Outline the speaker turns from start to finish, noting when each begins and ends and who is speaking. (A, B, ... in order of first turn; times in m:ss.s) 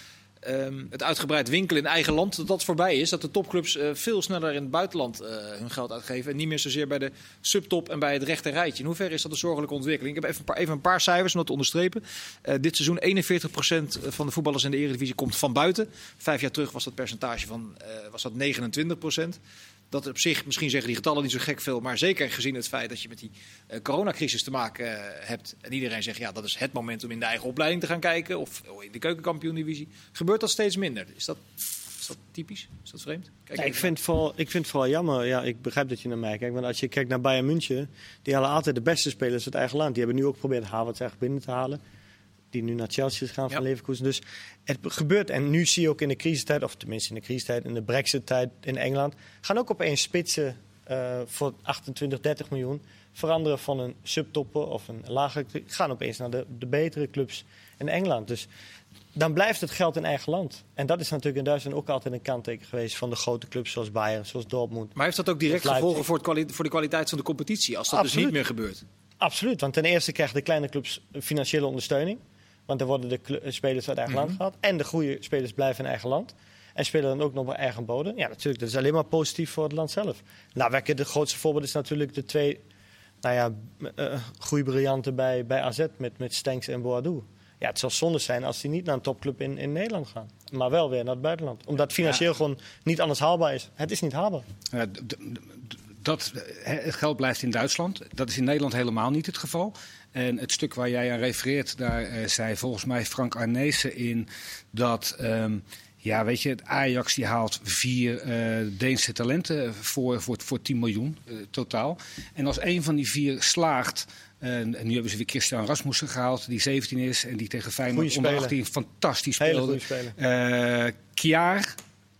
0:00.4-0:19.4 A
0:19.9-0:33.9 A
0:33.6-0:41.8 B
0:42.5-0:58.5 B
0:59.2-1:04.9 B
1:05.0-1:08.8 A
1:05.5-1:06.1 B
1:07.9-1:08.4 B
1:09.2-1:22.6 B
1:14.1-1:14.4 A
1:23.2-1:34.5 B
1:34.7-2:01.7 C
1:57.9-1:58.6 B
1:59.4-2:00.2 B